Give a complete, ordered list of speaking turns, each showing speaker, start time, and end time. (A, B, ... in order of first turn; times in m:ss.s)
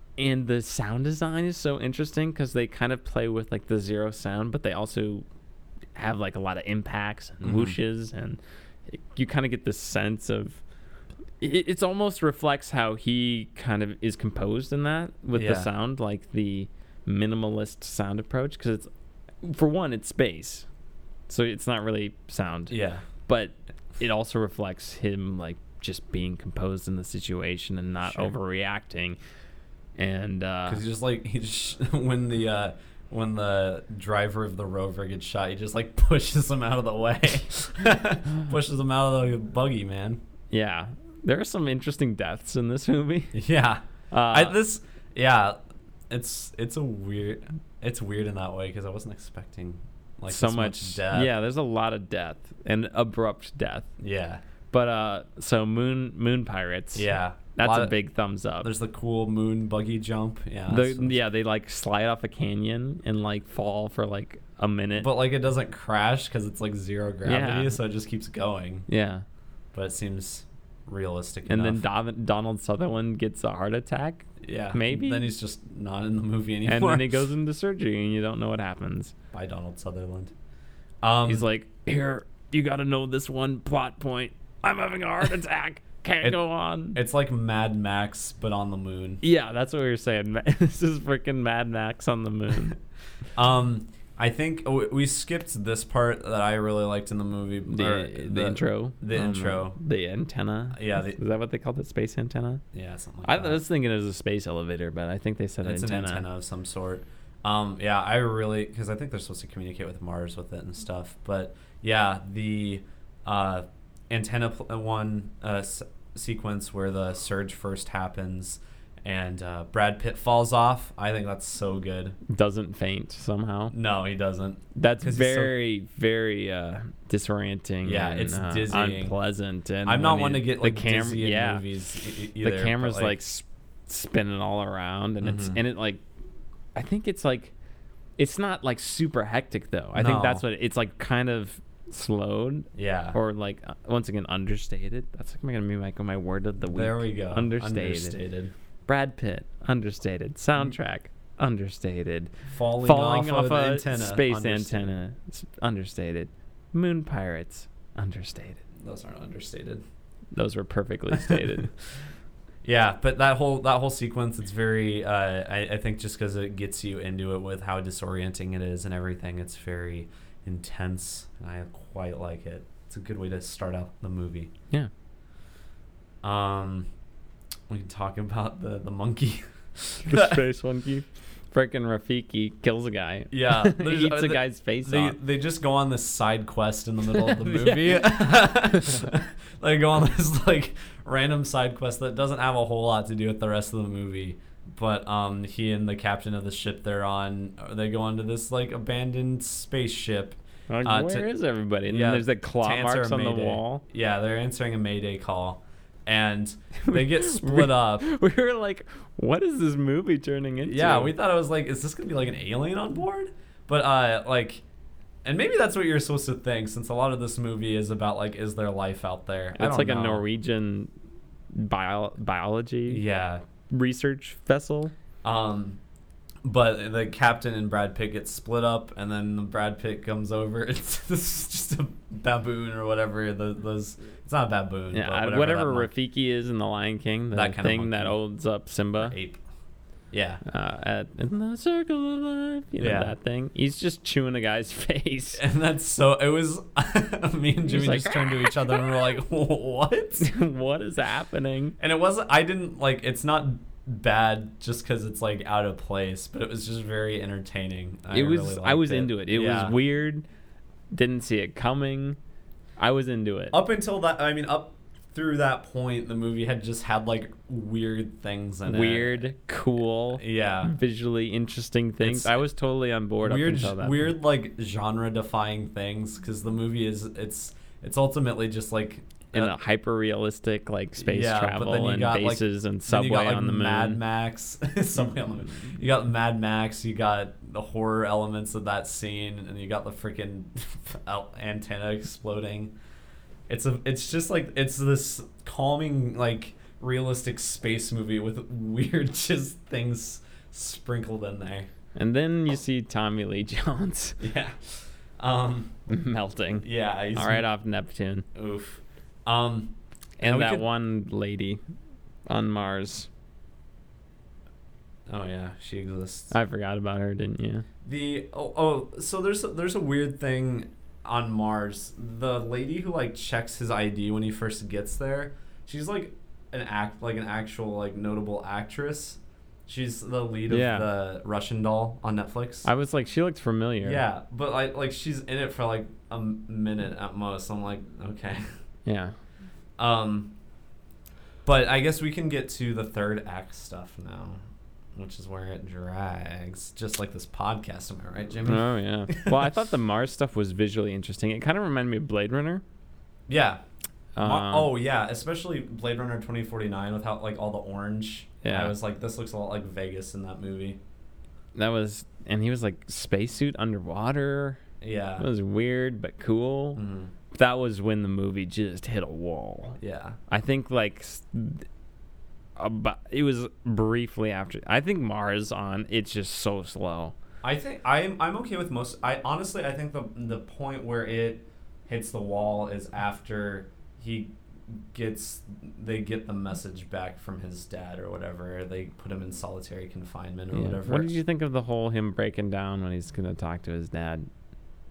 0:00.2-0:05.2 A
0:05.9-0:10.6 A
0:07.4-0:07.8 B
0:11.4-0:18.9 A
0:15.3-0:15.7 B
0:19.4-0:20.7 A
0:21.3-0:29.2 A
0:22.7-0:23.0 B
0:28.1-0:28.3 B
0:30.0-0:30.8 A
0:30.6-0:40.2 B
0:40.5-0:43.4 A
0:43.3-0:45.6 B
0:44.1-0:44.6 A
0:46.1-0:51.3 B
0:50.3-0:53.9 A
0:54.0-0:54.4 B
0:54.7-0:58.7 A
0:56.9-0:57.9 B
0:58.6-1:01.1 B
1:00.7-1:05.1 A
1:05.0-1:08.9 B
1:07.2-1:07.8 A
1:08.9-1:09.2 A
1:09.7-1:11.8 B
1:11.5-1:15.3 A
1:14.4-1:17.2 B
1:16.6-1:19.1 A
1:19.3-1:20.3 B
1:21.0-1:21.4 B
1:21.2-1:27.0 A
1:26.9-1:29.2 B
1:29.2-1:32.8 A
1:33.3-1:39.8 B
1:37.7-1:42.6 A
1:40.7-1:41.2 B
1:42.7-1:43.6 B
1:43.2-1:46.2 A
1:45.6-2:02.2 B
2:02.3-2:03.7 A
2:03.7-2:05.5 B
2:04.7-2:11.6 A
2:07.8-2:09.1 B
2:09.8-2:13.2 B
2:12.4-2:16.0 A
2:15.2-2:15.6 B
2:16.7-2:17.5 A
2:18.2-2:28.2 A
2:19.9-2:20.4 B
2:22.7-2:23.2 B
2:26.6-2:28.5 B
2:28.9-2:38.6 A
2:32.5-2:34.9 B
2:38.8-2:39.8 B
2:40.3-2:41.7 A
2:42.6-2:54.5 B
2:56.2-2:56.9 B
2:57.7-3:00.4 B
3:00.0-3:05.2 A
3:03.3-3:21.3 B
3:07.4-3:09.1 A
3:20.7-3:23.8 A
3:21.9-3:28.1 B
3:26.8-3:31.1 A
3:30.7-3:34.6 B
3:35.2-3:40.2 B
3:39.5-3:40.9 A
3:41.5-3:43.0 A
3:42.9-3:43.4 B
3:43.7-3:44.9 A
3:45.2-3:45.8 B
3:46.4-3:55.9 B
3:54.9-3:59.1 A
3:57.3-3:58.2 B
3:59.0-3:59.4 B
4:00.1-4:00.4 B
4:00.4-4:05.4 A
4:02.8-4:03.1 B
4:05.4-4:10.3 B
4:07.6-4:08.8 A
4:10.2-4:11.8 A
4:11.8-4:19.8 B
4:18.1-4:20.2 A
4:20.9-4:22.2 A
4:22.8-4:23.6 A
4:23.5-4:29.3 B
4:28.6-4:34.1 A
4:30.1-4:30.7 B
4:32.0-4:32.4 B
4:33.2-4:39.5 B
4:39.3-4:44.0 A
4:41.0-4:52.7 B
4:53.5-5:01.7 B
5:01.9-5:04.2 A
5:04.2-5:05.7 B
5:05.9-5:08.2 A
5:06.6-5:07.4 B
5:08.3-5:10.6 B
5:10.2-5:11.6 A
5:12.3-5:13.1 A
5:15.1-5:16.3 B
5:16.3-5:17.6 A
5:17.8-5:32.7 B
5:30.5-5:30.9 A
5:32.6-5:34.0 A
5:33.8-5:38.4 B
5:38.8-5:39.1 A
5:39.8-5:40.3 B
5:41.4-5:44.4 B
5:44.9-5:49.4 B
5:48.4-5:52.6 A
5:53.3-5:53.6 B
5:54.2-5:54.7 A
5:54.2-6:00.8 B
5:58.4-5:58.7 A
6:01.6-6:04.6 A
6:04.8-6:05.3 B
6:05.2-6:11.6 A
6:06.8-6:07.1 B
6:09.8-6:10.2 B
6:12.6-6:17.1 A
6:17.4-6:31.2 B
6:30.5-6:34.3 A